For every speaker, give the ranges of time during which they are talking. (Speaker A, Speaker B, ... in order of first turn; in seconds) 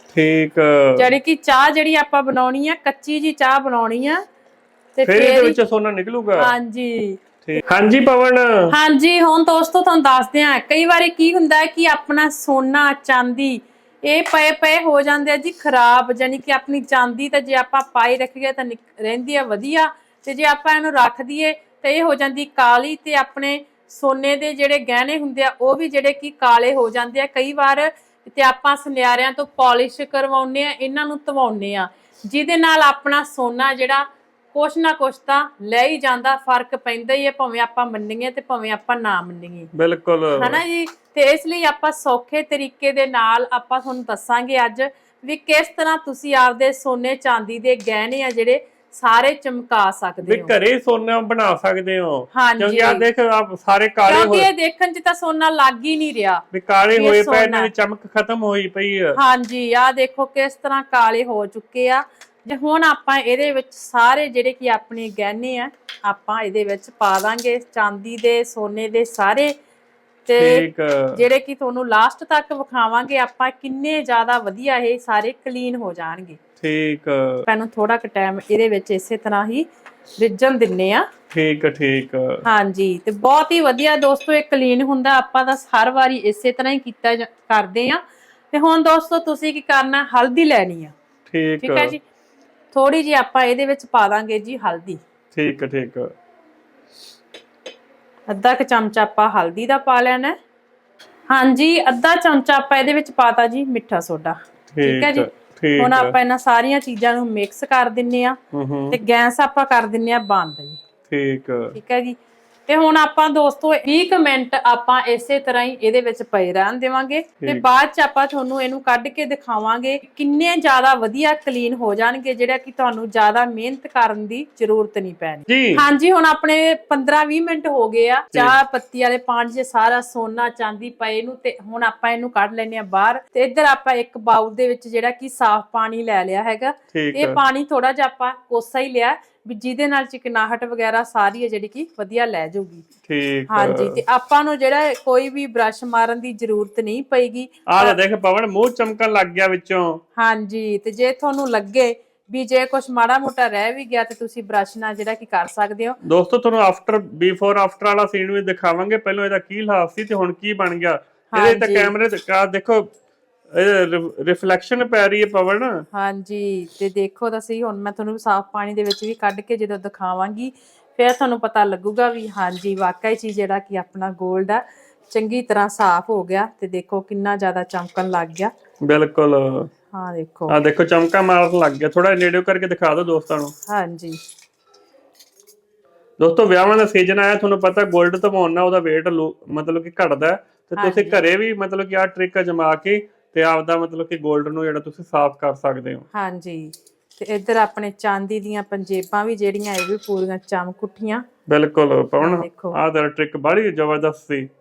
Speaker A: 0.1-1.1, 5.0-6.5, 7.4-8.7, 39.7-40.6, 50.2-54.5, 56.5-59.2, 70.4-71.2, 76.6-77.5, 81.3-82.4, 91.3-91.9, 95.3-96.1, 104.7-106.2, 108.5-109.0, 111.1-111.8, 125.5-125.8, 136.9-137.4, 143.1-144.0, 147.7-150.0, 156.0-162.9, 163.5-165.8, 178.8-179.7, 180.5-183.5, 186.2-196.1, 201.5-204.5
Speaker B: 1.0-4.2, 5.0-5.6, 6.4-7.2, 8.7-39.7, 40.4-50.5, 52.3-53.0, 54.1-57.7, 59.1-69.5, 70.3-76.4, 77.5-79.7, 80.2-81.1, 82.5-88.0, 88.5-90.9, 91.6-92.0, 92.7-95.0, 98.3-100.4, 101.3-108.4, 108.9-110.8, 111.7-112.2, 112.7-142.8, 143.5-148.0, 150.2-156.0, 161.3-161.9, 165.9-178.5, 179.9-180.6, 183.7-184.2, 190.8-191.2, 196.1-201.2, 202.2-202.8